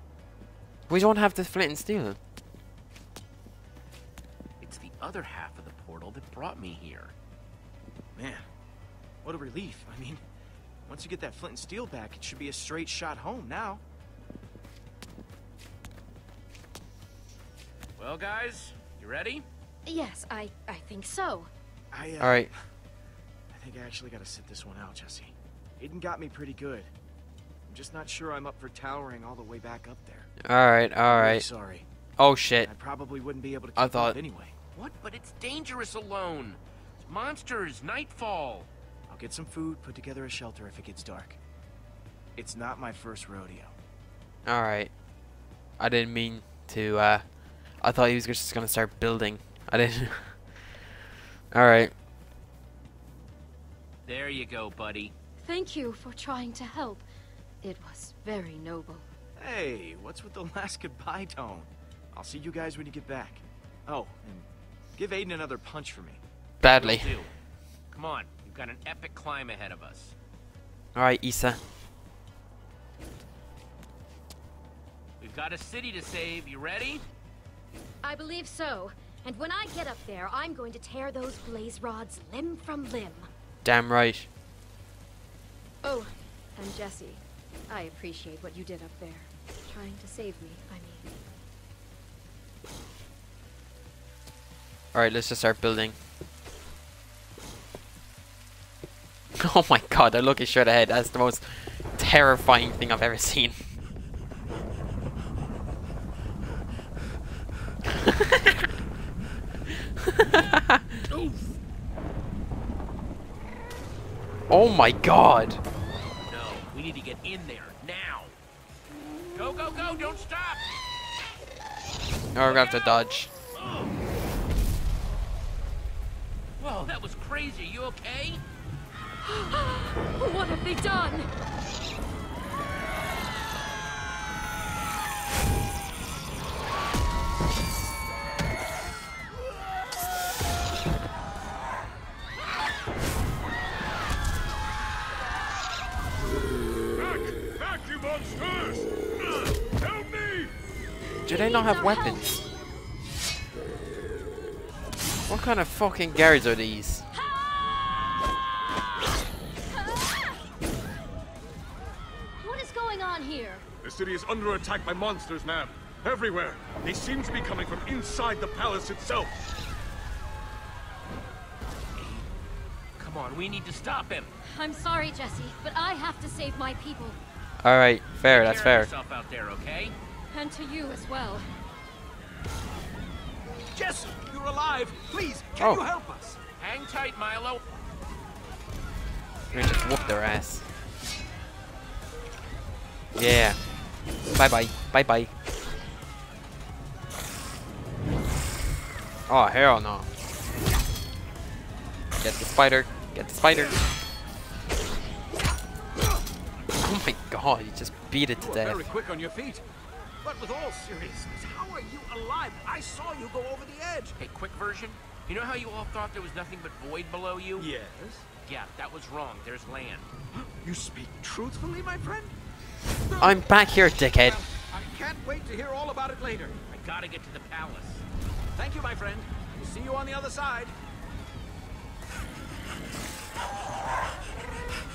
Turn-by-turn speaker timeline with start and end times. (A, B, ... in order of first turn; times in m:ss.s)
0:00.9-0:02.2 A
0:04.6-0:07.2 B
0:08.2-0:08.4 C
0:09.2-0:10.2 C
0:10.9-0:13.8 C
0:18.0-0:19.5 B
0:19.9-0:21.5 D
0:21.9-0:22.5 C
0:22.2-0:22.5 A
0:23.5-0:26.9 C
0:27.7-0:30.3 C
0:30.4-0:31.4 A
0:31.1-0:31.9 C
0:32.2-0:32.7 A
0:32.6-0:34.5 C
0:33.8-0:34.2 A
0:34.7-0:38.7 B
0:39.1-0:41.4 C
0:42.4-0:43.8 C
0:44.5-0:44.9 A
0:45.8-0:47.2 A
0:47.8-0:50.4 A
0:51.5-0:51.9 A
0:54.0-0:55.1 B
0:55.4-0:57.0 D
0:57.6-0:59.1 D
0:59.4-1:06.2 C
1:06.6-1:07.2 A
1:06.7-1:07.3 B
1:07.9-1:10.2 B
1:11.0-1:11.6 A
1:15.2-1:17.0 B
1:18.0-1:23.3 D
1:23.6-1:24.3 A
1:25.8-1:31.1 D
1:34.9-1:36.0 A
1:39.4-1:43.6 A
1:47.9-1:48.7 A
1:50.0-1:51.0 A
1:54.5-1:55.6 A
1:56.2-1:58.4 B
1:59.3-2:00.6 B
2:02.3-2:03.3 A
2:02.4-2:03.0 B
2:03.5-2:03.9 B
2:06.6-2:08.4 B
2:09.2-2:11.3 D
2:27.0-2:28.8 E
2:29.7-2:30.5 E
2:31.2-2:32.4 A
2:31.3-2:32.4 D
2:35.3-2:37.0 A
2:37.1-2:38.1 D
2:39.7-2:40.4 D
2:42.4-2:43.6 D
2:43.8-2:49.3 E
2:52.0-2:52.4 B
2:53.0-2:54.3 B
2:54.4-2:57.2 D
2:57.6-2:58.9 A
2:58.2-3:00.0 B
3:00.3-3:01.5 D
3:03.7-3:06.4 F
3:06.6-3:07.6 B
3:09.5-3:10.7 A
3:13.2-3:13.6 A
3:14.3-3:15.3 A
3:19.3-3:20.1 A
3:22.2-3:23.8 A
3:26.8-3:28.9 A
3:28.3-3:29.6 F
3:30.2-3:34.2 F
3:34.2-3:37.7 B
3:37.6-3:38.3 F
3:38.4-3:40.1 B
3:40.3-3:42.3 F
3:43.2-3:44.4 A
3:44.2-3:46.6 F
3:46.7-3:48.0 B
3:48.6-3:50.8 F